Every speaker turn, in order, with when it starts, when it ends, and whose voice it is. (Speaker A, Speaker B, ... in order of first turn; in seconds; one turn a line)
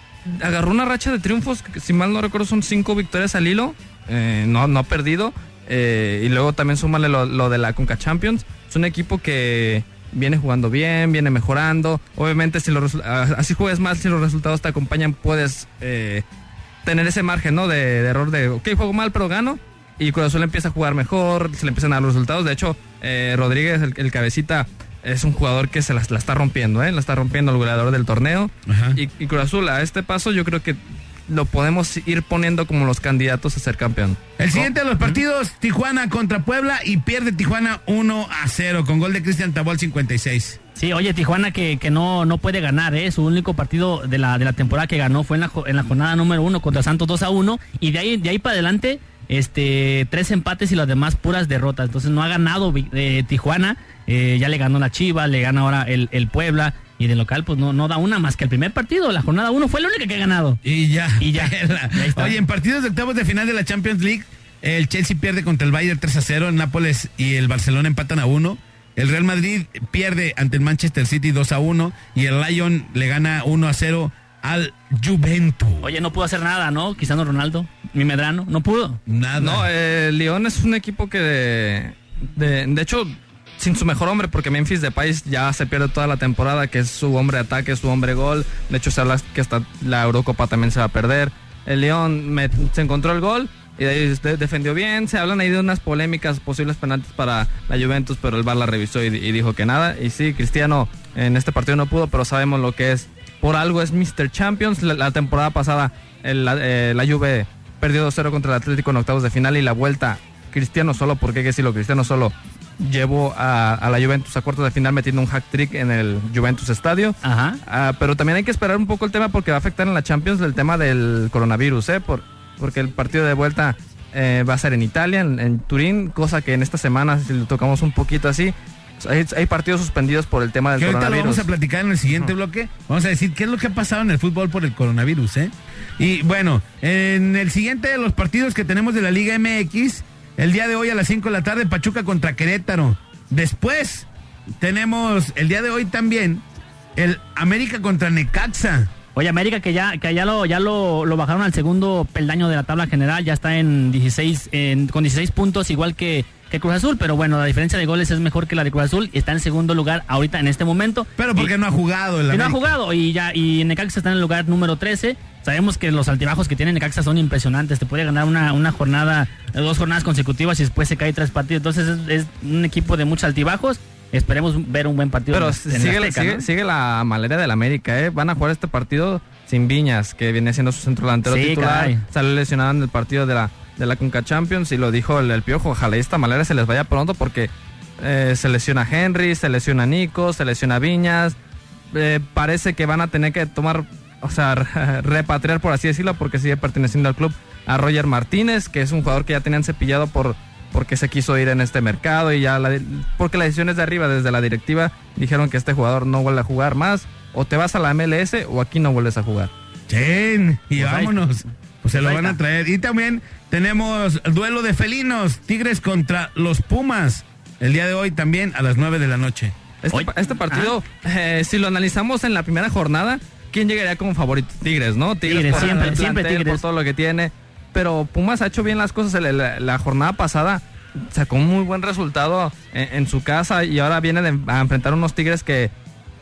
Speaker A: 0.3-16.2
Speaker A: 16.9-34.3
Speaker B: 28.7-29.0
Speaker B: 34.4-40.6
Speaker C: 40.8-60.6
Speaker B: 60.6-75.9
Speaker C: 61.2-62.4
Speaker C: 75.8-79.0
Speaker B: 79.1-79.7
Speaker A: 79.4-131.4
Speaker C: 117.2-117.6
Speaker B: 130.8-144.1
Speaker B: 144.6-146.4
Speaker B: 147.0-148.9
Speaker C: 149.2-161.5
Speaker B: 161.2-162.7
Speaker C: 162.3-176.4
Speaker A: 175.3-191.4
Speaker C: 181.3-182.0
Speaker A: 191.9-209.5
Speaker B: 209.9-219.6
Speaker C: 210.8-211.2
Speaker C: 211.9-212.4
Speaker A: 219.8-235.7
Speaker C: 219.9-220.7
Speaker C: 225.2-226.6
Speaker B: 225.5-225.9